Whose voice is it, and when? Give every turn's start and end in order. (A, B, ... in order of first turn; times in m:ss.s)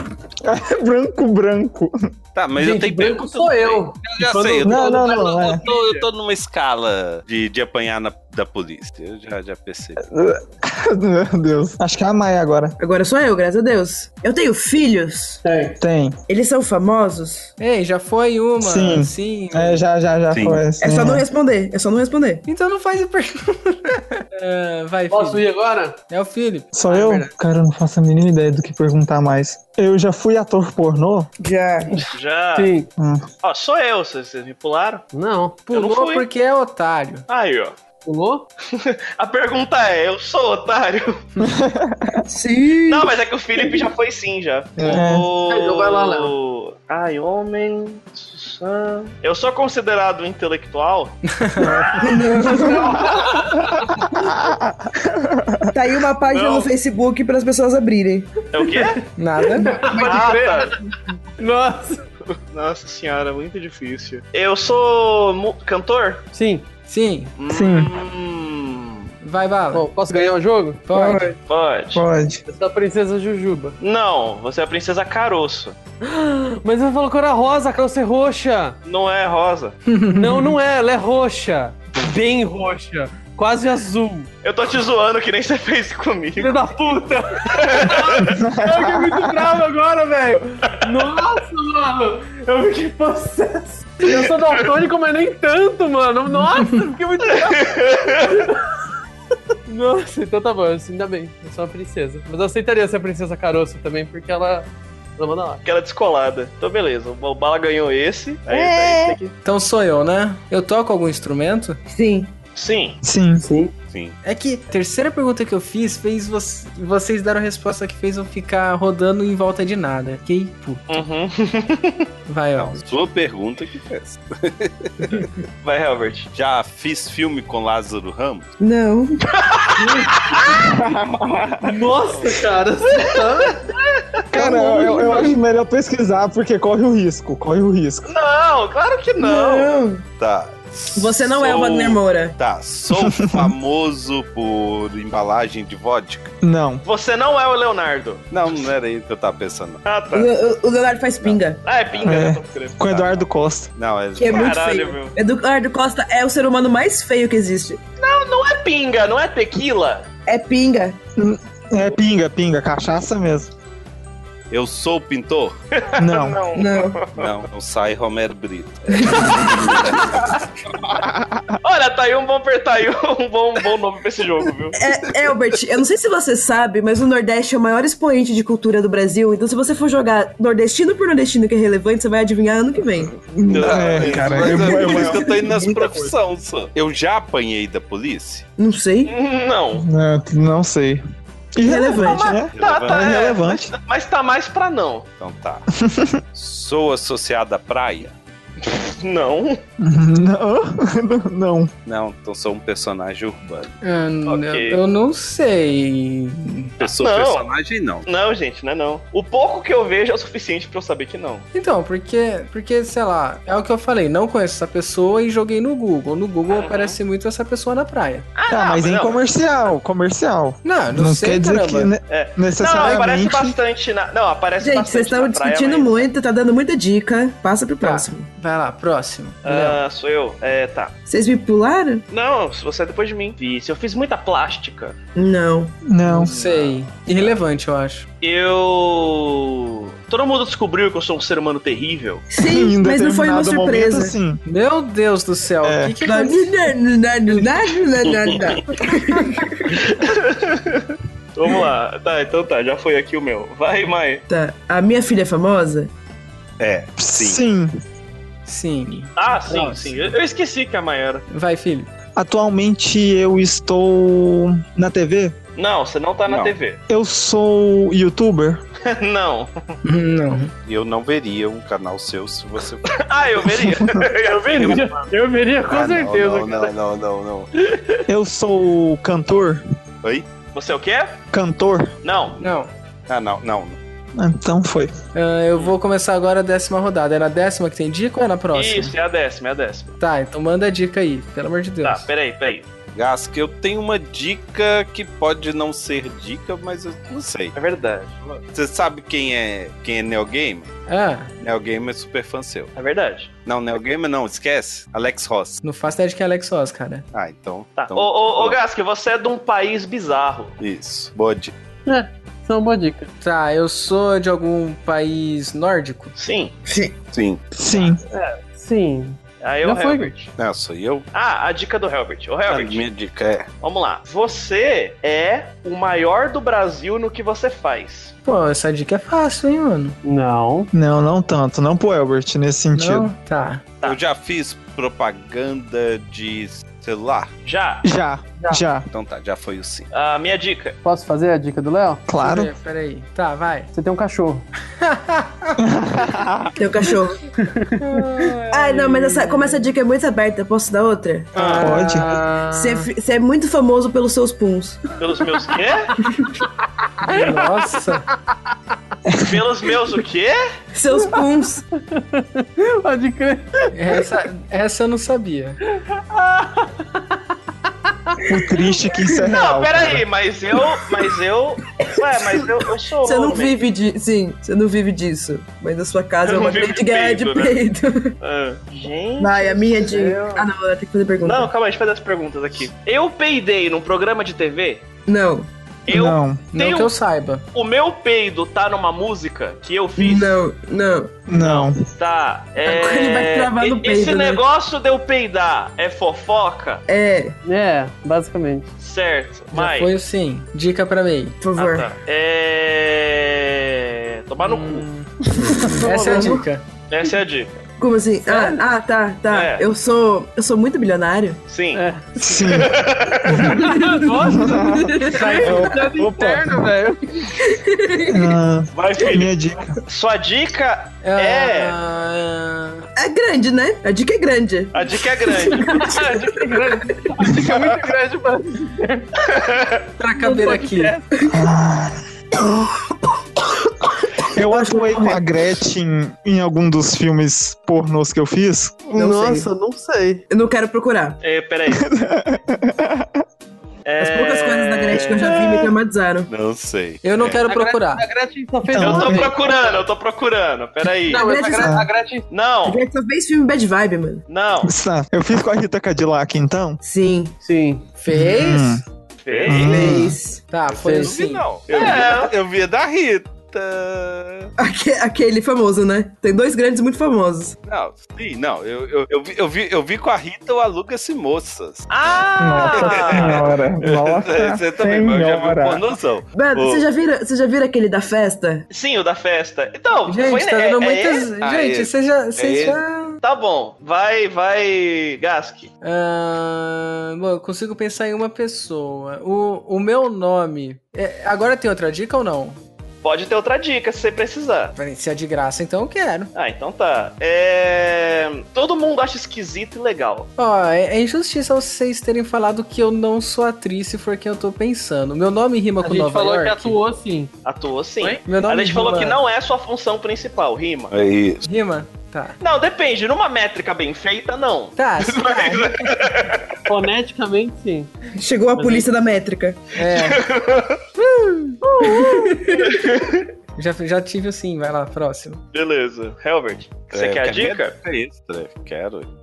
0:00.4-0:02.1 A
0:02.3-0:10.0 B
0:02.6-0:05.5 C
0:04.6-0:05.6 A
0:05.4-0:06.0 D
0:10.0-0:12.8 A
0:12.8-0:15.4 E
0:15.4-0:15.8 C
0:15.8-0:16.2 A
0:16.3-0:17.5 E
0:17.6-0:19.8 F
0:18.6-0:21.2 A
0:20.3-0:20.7 B
0:20.8-0:22.4 E
0:22.4-0:25.4 F
0:25.1-0:26.0 C
0:26.1-0:26.7 F
0:26.7-0:31.3 A
0:26.9-0:27.3 C
0:31.4-0:31.9 E
0:32.1-0:32.7 D
0:32.6-0:32.9 C
0:33.0-0:33.2 A
0:33.4-0:35.0 D
0:35.1-0:35.6 C
0:35.7-0:37.2 F
0:35.7-0:36.3 D
0:37.3-0:37.7 D
0:38.0-0:38.4 C
0:38.7-0:41.2 D
0:41.4-0:42.2 A
0:42.3-0:43.8 E
0:42.8-0:53.3 D
0:44.8-0:45.3 A
0:45.5-0:46.3 C
0:51.4-0:51.9 F
0:52.0-0:53.0 E
0:52.6-0:53.7 C
0:54.0-0:55.7 A
0:55.7-0:58.3 E
0:56.3-0:56.7 D
0:58.5-0:59.0 D
0:58.7-0:59.0 C
0:59.2-0:59.8 F
0:59.6-1:00.8 C
0:59.9-1:00.7 D
1:01.4-1:02.0 C
1:02.5-1:06.2 D
1:06.3-1:06.7 C
1:06.9-1:07.3 F
1:07.4-1:09.1 D
1:07.5-1:07.9 A
1:09.2-1:09.9 F
1:09.7-1:10.9 C
1:10.9-1:11.3 F
1:10.9-1:11.4 E
1:11.5-1:12.0 D
1:11.9-1:12.4 A
1:12.5-1:13.8 C
1:13.8-1:15.8 D
1:16.0-1:18.8 C
1:18.8-1:19.8 D
1:19.9-1:20.5 F
1:20.2-1:24.3 C
1:24.4-1:26.6 D
1:26.4-1:38.6 C
1:27.4-1:28.4 D
1:28.2-1:29.4 A
1:37.4-1:38.5 D
1:39.7-1:45.6 C
1:45.6-1:49.2 D
1:48.5-1:49.3 E
1:49.4-1:51.8 F
1:51.9-1:52.3 E
1:52.6-1:53.0 D
1:53.0-1:53.4 A
1:53.4-1:53.7 C
1:53.8-1:54.2 B
1:54.2-2:00.9 F
2:00.9-2:02.1 D
2:02.3-2:02.9 F
2:02.6-2:05.3 B
2:05.6-2:06.3 D
2:06.3-2:08.5 B
2:08.6-2:09.2 E
2:09.4-2:10.7 D
2:09.8-2:10.2 C
2:10.6-2:11.7 A
2:11.6-2:13.7 C
2:12.9-2:13.8 D
2:14.3-2:18.1 A
2:14.4-2:15.2 E
2:15.0-2:15.3 C
2:18.1-2:19.7 D
2:19.2-2:20.0 E
2:20.2-2:26.3 B
2:20.9-2:22.4 E
2:22.9-2:23.5 A
2:26.4-2:26.8 A
2:26.8-2:28.3 D
2:28.3-2:29.8 B
2:29.8-2:30.3 D
2:30.1-2:31.6 E
2:31.6-2:32.8 D
2:31.9-2:32.2 B
2:32.0-2:33.7 A
2:32.8-2:33.2 B
2:33.7-2:34.6 B
2:34.1-2:37.8 E
2:34.3-2:35.1 D
2:38.0-2:40.1 D
2:40.2-2:41.0 E
2:41.2-2:43.5 A
2:44.5-2:45.5 B
2:45.7-2:47.3 D
2:46.0-2:46.4 A
2:46.5-2:47.0 E
2:47.1-2:50.3 B
2:48.9-2:50.0 E
2:51.0-2:51.6 A
2:51.6-2:54.8 D
2:54.7-3:03.1 E
3:03.2-3:06.1 A
3:03.5-3:05.1 D
3:03.5-3:08.4 B
3:04.7-3:05.2 E
3:08.6-3:09.1 E
3:09.0-3:09.8 D
3:09.7-3:11.0 A
3:11.5-3:13.7 A
3:11.6-3:12.4 E
3:12.2-3:15.1 D
3:12.4-3:13.2 B
3:15.2-3:15.6 B
3:15.8-3:16.2 A
3:16.3-3:18.1 B
3:18.7-3:19.6 D
3:19.8-3:21.7 A
3:21.8-3:23.7 B
3:23.8-3:26.7 F
3:24.2-3:24.8 D
3:26.8-3:27.5 D
3:26.8-3:28.1 B
3:28.0-3:31.4 D
3:31.5-3:38.2 F
3:36.5-3:37.0 D
3:38.3-3:39.2 D
3:38.5-3:43.6 A
3:40.6-3:41.9 F
3:42.1-3:46.1 D
3:44.6-3:48.2 E
3:47.8-3:49.8 F
3:49.4-3:50.9 D
3:51.1-3:52.0 E
3:52.1-3:55.0 D
3:55.1-3:55.8 E
3:55.8-3:56.3 A
3:56.0-3:58.0 F
3:56.3-3:57.3 D
3:58.2-4:02.2 D
4:02.3-4:04.1 E
4:02.4-4:04.4 A
4:04.4-4:06.5 F
4:05.6-4:06.0 A
4:06.0-4:09.8 E
4:09.7-4:14.2 D
4:14.3-4:15.9 E
4:16.6-4:17.4 B
4:17.0-4:17.7 A
4:18.4-4:20.1 F
4:19.2-4:21.2 D
4:21.3-4:21.9 F
4:22.2-4:25.4 A
4:25.6-4:26.8 D
4:26.3-4:26.6 B
4:26.9-4:28.6 A
4:28.8-4:29.5 D
4:29.8-4:30.5 F
4:30.6-4:32.9 B
4:32.9-4:35.1 D
4:33.5-4:34.0 A
4:34.3-4:36.7 C
4:35.7-4:37.5 B
4:38.1-4:39.6 A
4:40.5-4:41.2 D
4:41.3-4:41.9 A
4:42.0-4:42.4 D
4:42.4-4:42.7 F
4:43.1-4:43.8 B
4:44.2-4:44.9 A
4:45.1-4:48.9 F
4:48.5-4:50.0 D
4:50.0-4:52.1 F
4:51.8-4:52.6 D
4:52.9-4:57.5 B
4:57.5-4:58.4 D
4:58.5-5:00.7 B
5:00.9-5:01.3 F
5:01.4-5:02.7 B
5:02.8-5:03.3 D
5:03.4-5:05.6 B
5:05.6-5:07.0 F
5:07.1-5:08.6 B
5:07.8-5:10.6 D
5:10.6-5:11.5 B
5:11.8-5:13.1 C
5:13.2-5:16.1 F
5:16.2-5:16.5 D
5:16.6-5:17.0 E
5:17.1-5:17.9 B
5:17.5-5:18.0 A
5:18.5-5:20.2 C
5:19.4-5:20.3 D
5:20.4-5:21.0 B
5:21.1-5:22.8 D
5:22.5-5:23.5 B
5:23.6-5:28.1 D
5:28.2-5:30.0 F
5:30.0-5:30.7 C
5:30.7-5:33.1 A
5:32.7-5:33.6 F
5:33.8-5:37.3 B
5:37.4-5:37.8 D
5:37.8-5:38.9 A
5:38.4-5:38.6 C
5:38.9-5:39.9 B
5:39.9-5:40.8 D
5:40.8-5:42.0 C
5:42.1-5:42.5 A
5:42.2-5:43.7 F
5:43.7-5:44.4 C
5:44.8-5:45.5 F
5:45.6-5:46.6 A
5:46.6-5:47.2 E
5:47.4-5:48.4 C
5:47.8-5:49.6 F
5:48.5-5:51.3 E
5:51.3-5:51.8 D
5:51.4-5:52.9 F
5:51.6-5:52.2 A
5:52.5-5:54.8 E
5:55.0-5:56.0 D
5:57.0-5:58.1 F
5:57.1-5:57.7 C
5:59.1-5:59.4 A
5:59.2-6:00.4 D
6:00.7-6:01.6 E
6:01.9-6:03.7 C
6:03.7-6:05.6 F
6:05.8-6:07.2 C
6:08.2-6:10.0 A
6:09.3-6:13.6 D
6:13.0-6:18.1 E
6:16.2-6:17.6 D
6:18.2-6:19.9 D
6:19.2-6:21.5 E
6:19.9-6:20.4 C
6:21.2-6:24.8 D
6:25.1-6:25.5 E
6:25.9-6:26.9 D
6:25.9-6:26.4 A
6:26.5-6:27.4 F
6:27.5-6:30.4 D
6:30.0-6:31.1 E
6:31.3-6:31.8 A
6:31.3-6:36.8 D
6:32.6-6:34.4 E
6:36.9-6:37.4 E
6:37.4-6:38.7 C
6:38.8-6:39.9 D
6:39.5-6:41.4 F
6:41.4-6:41.9 E
6:41.6-6:44.9 D
6:44.4-6:46.6 F
6:45.4-6:46.4 E
6:46.9-6:47.5 D
6:47.8-6:51.4 E
6:48.3-6:48.6 C
6:49.3-6:49.7 D
6:51.5-6:51.8 D
6:51.7-6:52.4 C
6:52.2-6:53.5 A
6:52.4-6:53.5 D
6:53.4-6:55.6 E
6:53.4-6:57.3 C
6:54.2-6:56.6 A
6:55.1-6:55.7 F
6:57.4-6:58.4 E
6:58.1-6:59.7 A
6:58.7-7:01.8 D
7:01.0-7:02.8 F
7:03.0-7:07.0 E
7:04.7-7:05.9 D
7:05.5-7:09.1 C
7:07.3-7:07.7 A
7:09.2-7:09.8 D
7:10.0-7:11.0 F
7:10.2-7:11.0 C
7:11.3-7:12.0 A
7:14.2-7:15.2 E
7:14.3-7:18.8 A
7:18.9-7:20.2 C
7:19.0-7:19.5 E
7:20.3-7:21.2 E
7:21.2-7:21.8 D
7:21.7-7:23.2 A
7:23.8-7:25.7 D
7:24.0-7:26.3 E
7:26.3-7:27.4 B
7:27.0-7:28.0 F
7:27.4-7:29.8 C
7:28.6-7:29.3 A
7:28.8-7:31.3 D
7:31.1-7:32.3 C
7:31.1-7:31.8 E
7:31.6-7:31.9 A
7:32.3-7:32.8 D
7:32.6-7:34.2 E
7:34.3-7:34.7 D
7:34.6-7:36.8 A
7:36.8-7:37.3 E
7:37.4-7:37.8 C
7:38.0-7:38.8 F
7:38.1-7:38.8 A
7:39.2-7:39.9 D
7:39.3-7:39.9 B
7:39.5-7:40.2 A
7:39.5-7:40.4 E
7:40.5-7:41.4 F
7:40.7-7:44.5 B
7:40.8-7:41.2 C
7:41.7-7:42.3 D
7:44.6-7:47.6 E
7:47.7-7:51.9 B
7:51.9-7:53.5 D
7:52.4-7:55.8 A
7:52.6-7:56.8 B
7:56.3-7:58.6 E
7:58.7-8:01.3 D
8:00.0-8:03.2 F
8:01.4-8:02.8 B
8:03.2-8:05.7 D
8:05.8-8:12.6 F
8:13.0-8:14.7 D
8:14.8-8:16.3 F
8:16.3-8:20.3 D
8:20.4-8:26.8 F
8:25.8-8:27.3 C
8:27.4-8:30.9 D
8:28.2-8:29.2 F
8:30.9-8:31.4 B
8:31.4-8:32.4 F
8:32.4-8:36.6 D
8:34.8-8:35.9 F
8:36.7-8:37.9 C
8:38.2-8:39.6 E
8:38.6-8:38.9 C
8:39.8-8:40.2 F
8:39.8-8:40.8 D
8:41.8-8:42.7 E
8:41.8-8:43.2 D
8:43.6-8:45.4 F
8:45.5-8:47.8 D
8:46.9-8:49.1 B